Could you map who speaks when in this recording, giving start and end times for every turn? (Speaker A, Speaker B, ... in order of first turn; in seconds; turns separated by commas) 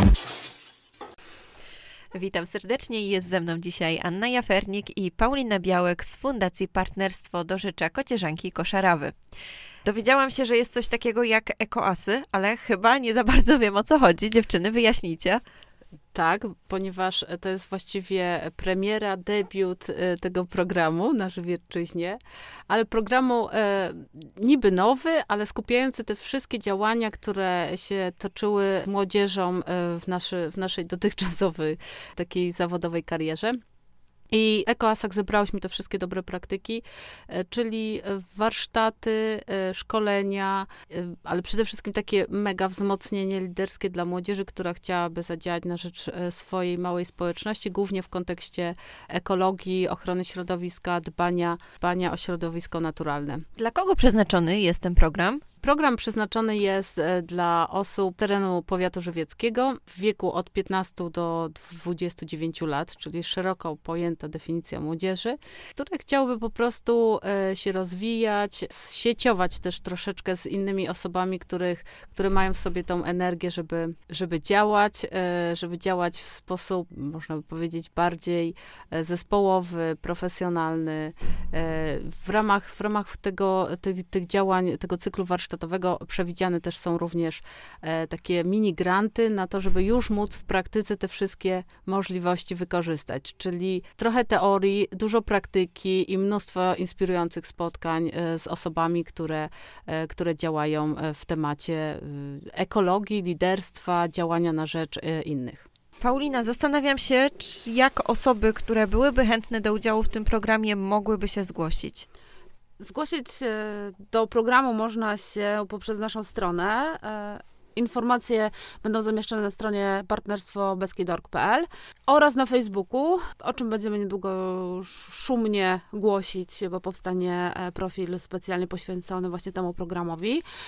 Speaker A: 2.1-9.1, Speaker A: 9.8-15.4, Speaker B: 16.1-33.6, Speaker B: 34.3-53.5, Speaker A: 53.6-55.4, Speaker B: 55.6-105.7, Speaker A: 106.0-112.1, Speaker C: 112.8-130.4